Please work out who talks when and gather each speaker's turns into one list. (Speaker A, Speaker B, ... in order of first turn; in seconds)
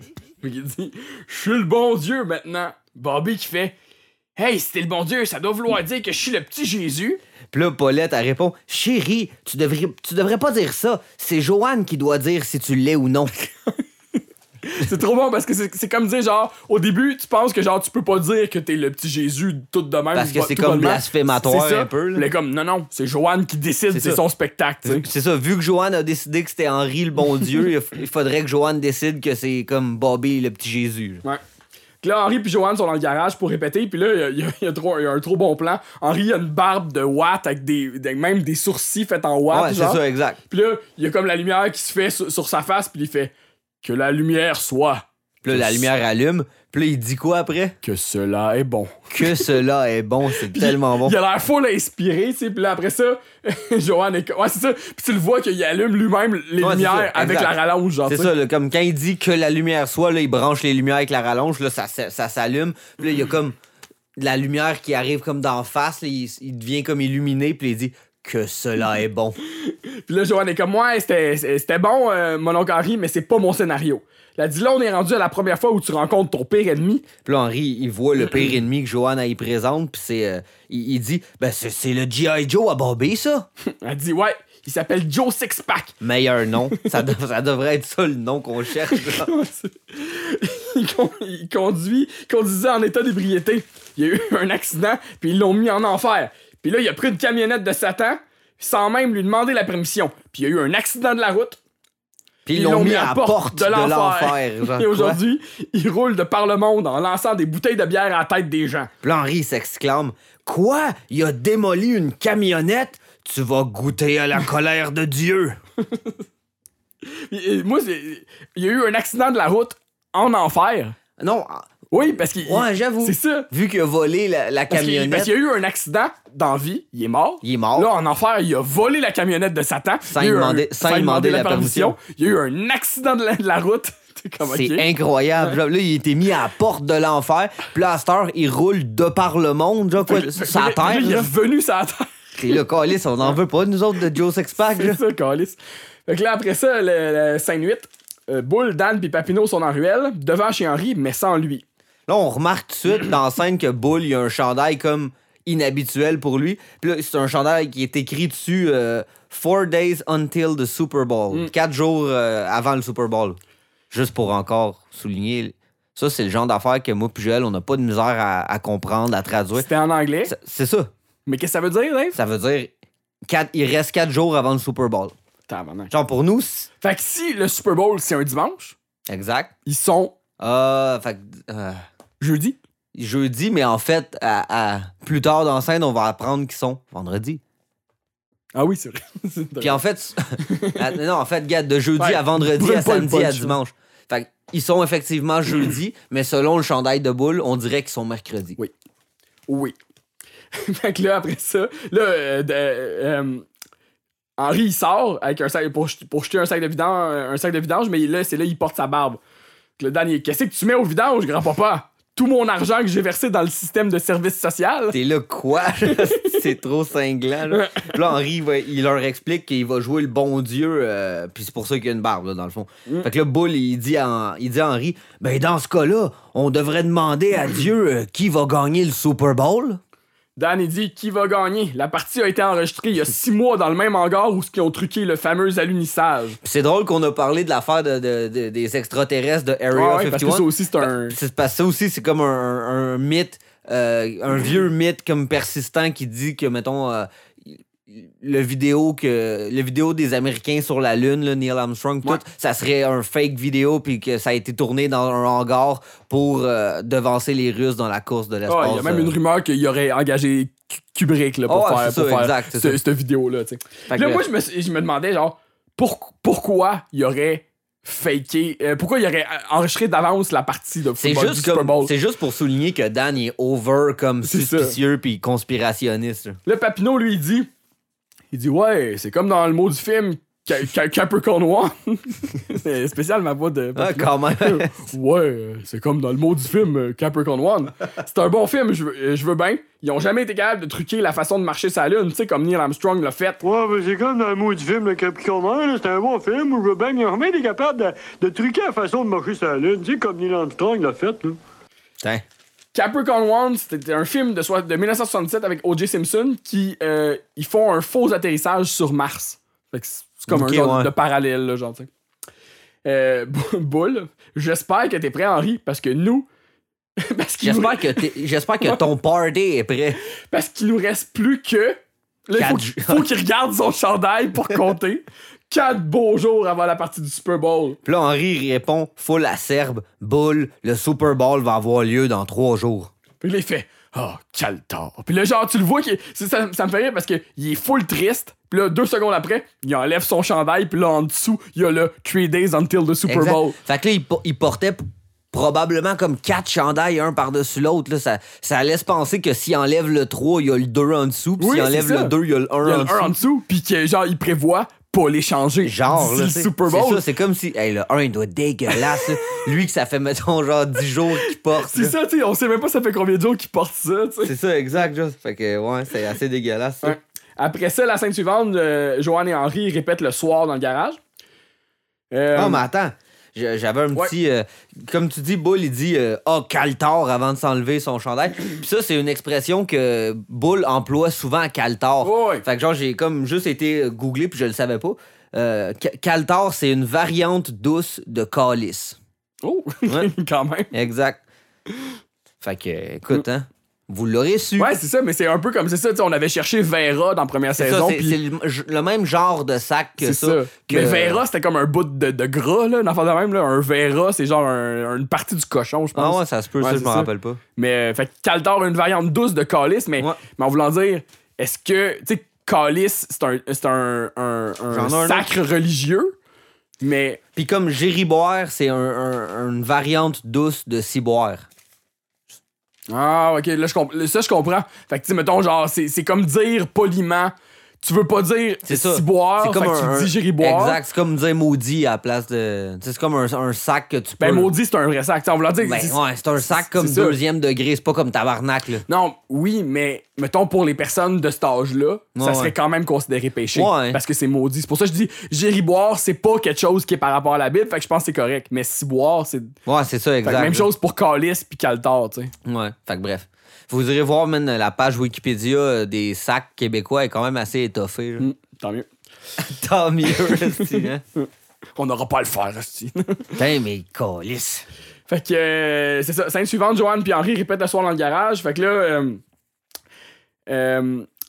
Speaker A: 0.4-3.7, 4.4-7.2, 14.6-25.0, 32.0-45.9, 47.8-49.5, 50.4-58.3, 69.7-77.0, 83.8-85.9, 88.9-101.6, 102.5-108.9, 117.1-121.0, 121.9-123.5, 124.7-134.8, 140.0-142.6, 144.8-151.6, 169.5-170.3, 171.2-172.2, 175.5-175.9, 176.8-178.8, 179.7-180.1, 182.2-182.6, 188.5-189.8, 190.4-190.9, 192.0-193.6, 199.5-199.8, 200.5-203.4, 204.4-209.2, 209.8-215.0, 215.9-216.1, 217.5-217.9, 230.4-236.4, 239.7-241.2, 258.5-271.9, 274.3-274.8, 276.4-277.5, 278.3-293.4, 302.7-311.9, 312.8-316.2, 317.0-318.1, 320.3-327.8, 333.2-343.6, 351.4-357.0, 361.2-364.3, 366.8-371.0, 372.1-372.6, 382.0-382.4, 389.4-390.7, 394.6-398.2, 400.0-416.1, 416.8-417.2, 422.9-430.8, 434.2-436.0, 436.7-437.2, 438.9-449.6, 450.2-452.3, 458.2-458.9, 460.2-463.3, 465.1-469.2, 470.5-471.1
Speaker B: 7.5-13.3, 20.1-22.3, 23.9-24.2, 24.8-31.2, 39.5-40.4, 45.4-47.7, 49.1-51.1, 56.6-63.5, 64.2-69.4, 77.2-83.5, 86.0-89.3, 102.5-105.2, 109.0-115.6, 121.2-121.7, 122.4-125.3, 127.4-127.9, 130.1-132.0, 134.4-141.3, 142.4-145.0, 152.1-163.4, 163.9-169.7, 170.3-170.9, 172.1-172.7, 173.3-175.1, 175.9-176.7, 179.1-179.5, 180.4-181.8, 182.9-187.4, 189.6-198.6, 214.9-229.8, 236.4-259.1, 261.5-262.8, 263.9-264.2, 271.0-276.4, 283.8-284.8, 310.3-310.9, 317.4-320.0, 322.4-323.1, 327.8-332.9, 343.1-353.1, 355.6-361.9, 364.2-367.0, 372.3-389.0, 390.7-391.2, 392.4-394.7, 397.6-401.2, 405.9-407.4, 414.7-415.3, 417.4-421.4, 428.7-434.5, 435.6-438.8, 442.1-442.5, 443.5-444.0, 449.6-450.7, 452.4-458.3, 459.4-461.0, 463.4-464.6
Speaker C: 293.4-301.4